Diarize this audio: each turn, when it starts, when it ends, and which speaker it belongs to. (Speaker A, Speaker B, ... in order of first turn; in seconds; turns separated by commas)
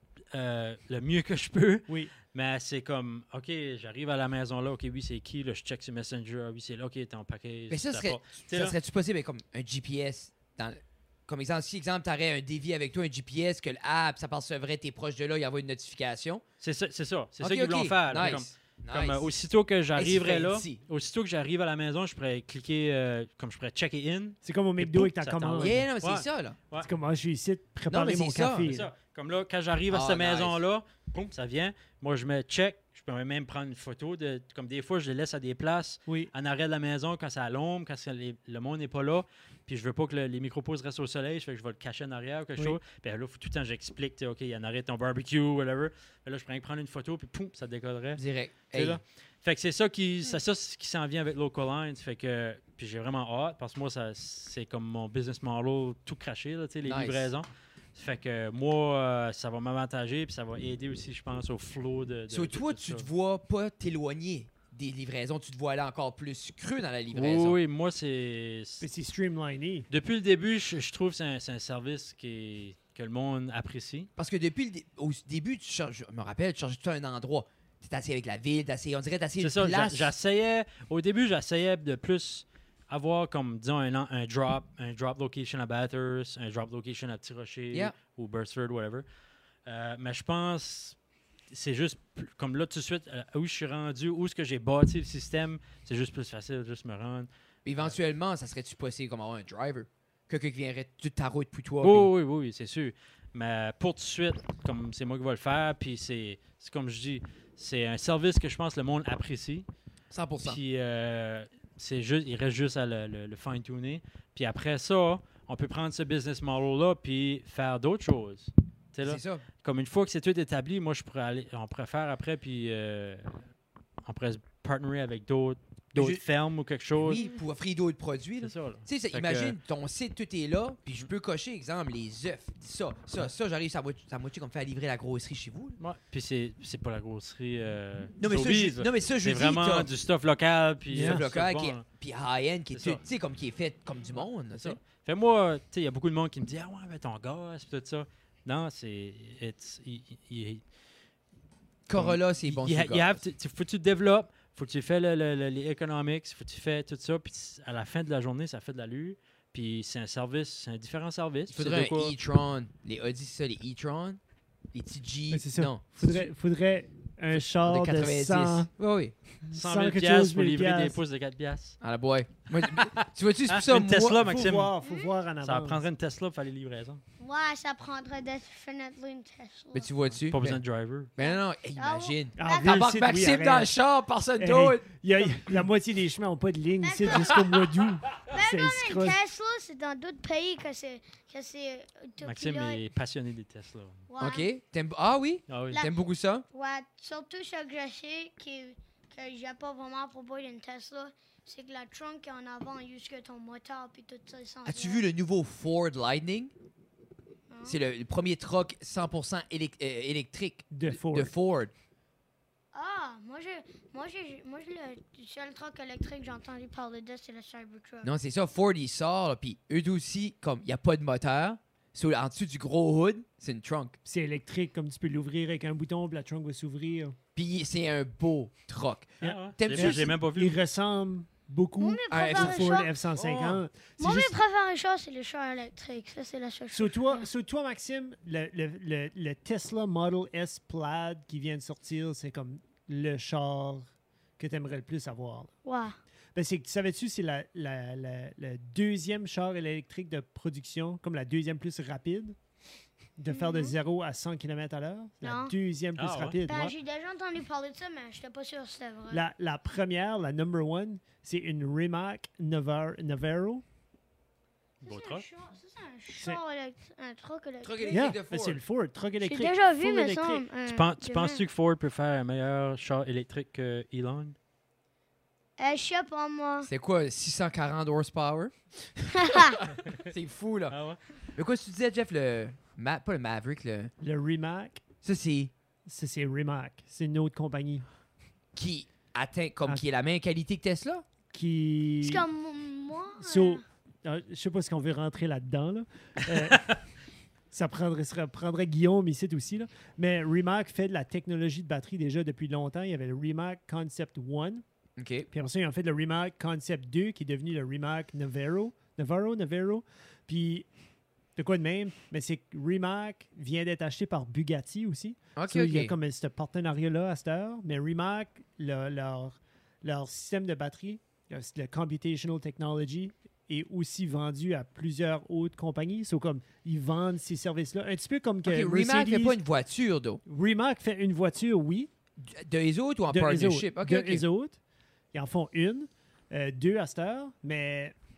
Speaker A: 0.3-8.8, Speaker B: 7.7-16.4, Speaker A: 16.6-26.9, Speaker B: 17.4-19.3, Speaker B: 19.9-20.8, Speaker C: 24.4-25.8, Speaker B: 25.6-26.6, Speaker C: 26.8-28.9, Speaker B: 27.9-28.7, Speaker A: 28.6-63.1, Speaker B: 29.9-30.6, Speaker B: 48.2-49.0, Speaker B: 56.8-57.3, Speaker B: 62.3-67.6, Speaker A: 67.1-68.9, Speaker C: 68.8-69.9, Speaker A: 69.9-74.1, Speaker B: 74.2-80.1, Speaker A: 79.4-89.0, Speaker A: 89.7-91.0, Speaker A: 91.5-97.3, Speaker B: 97.7-102.1, Speaker A: 101.8-109.7, Speaker B: 110.1-110.6, Speaker A: 110.4-123.4, Speaker B: 119.0-119.4, Speaker A: 124.0-127.2, Speaker B: 125.9-126.2, Speaker B: 127.0-135.8, Speaker A: 128.4-129.6, Speaker A: 135.8-141.8, Speaker B: 138.2-139.9, Speaker C: 140.9-141.2, Speaker B: 140.9-144.8, Speaker A: 142.7-143.0, Speaker A: 144.5-150.6, Speaker B: 151.9-153.2, Speaker A: 151.9-162.1, Speaker B: 161.5-164.2, Speaker B: 164.7-166.3, Speaker C: 165.3-168.7, Speaker B: 167.3-169.1, Speaker C: 169.4-171.0, Speaker A: 169.5-171.8, Speaker B: 171.8-174.3, Speaker A: 172.5-174.7, Speaker C: 174.2-175.8, Speaker D: 174.8-175.1, Speaker A: 175.4-177.0, Speaker D: 177.2-179.9, Speaker B: 179.7-180.6, Speaker A: 180.2-181.1, Speaker B: 181.2-184.9, Speaker D: 181.2-182.9, Speaker C: 182.4-183.7, Speaker C: 184.4-189.2, Speaker D: 186.8-187.4, Speaker D: 188.2-192.8, Speaker A: 192.2-194.0, Speaker D: 194.1-194.5, Speaker B: 194.2-196.4, Speaker A: 195.5-195.9, Speaker D: 196.5-205.0, Speaker B: 204.6-206.5, Speaker D: 207.5-207.8, Speaker B: 207.6-211.7, Speaker C: 210.7-211.3, Speaker D: 212.7-218.1, Speaker B: 218.0-224.0, Speaker C: 224.0-227.2, Speaker B: 227.3-230.2, Speaker C: 229.2-234.4, Speaker A: 229.2-230.6, Speaker D: 231.8-232.9, Speaker B: 232.1-232.7, Speaker A: 233.2-233.6, Speaker D: 234.0-237.2, Speaker C: 236.7-243.9, Speaker C: 244.4-245.5, Speaker D: 245.6-245.9, Speaker C: 246.3-252.3, Speaker C: 253.2-256.7, Speaker D: 253.3-253.7, Speaker D: 255.2-255.5, Speaker A: 255.9-256.4, Speaker D: 256.4-259.2, Speaker C: 259.1-263.6, Speaker D: 264.8-268.1, Speaker A: 264.8-265.2, Speaker B: 267.6-268.6, Speaker C: 267.9-270.4, Speaker D: 269.2-271.4, Speaker A: 270.7-274.4, Speaker D: 275.6-276.7, Speaker B: 276.6-280.8, Speaker D: 279.1-279.6, Speaker A: 280.7-281.0, Speaker B: 281.3-283.9, Speaker C: 284.0-284.8, Speaker B: 285.0-285.5, Speaker C: 285.9-287.8, Speaker B: 288.5-291.0, Speaker C: 291.3-292.2, Speaker D: 292.0-293.6, Speaker C: 293.2-296.8, Speaker C: 297.5-304.6, Speaker B: 305.0-305.3, Speaker C: 305.3-310.7, Speaker C: 311.4-329.4, Speaker B: 315.4-315.9, Speaker B: 328.4-330.2, Speaker C: 330.2-331.9, Speaker B: 332.2-334.2, Speaker C: 333.1-334.6, Speaker C: 335.1-337.9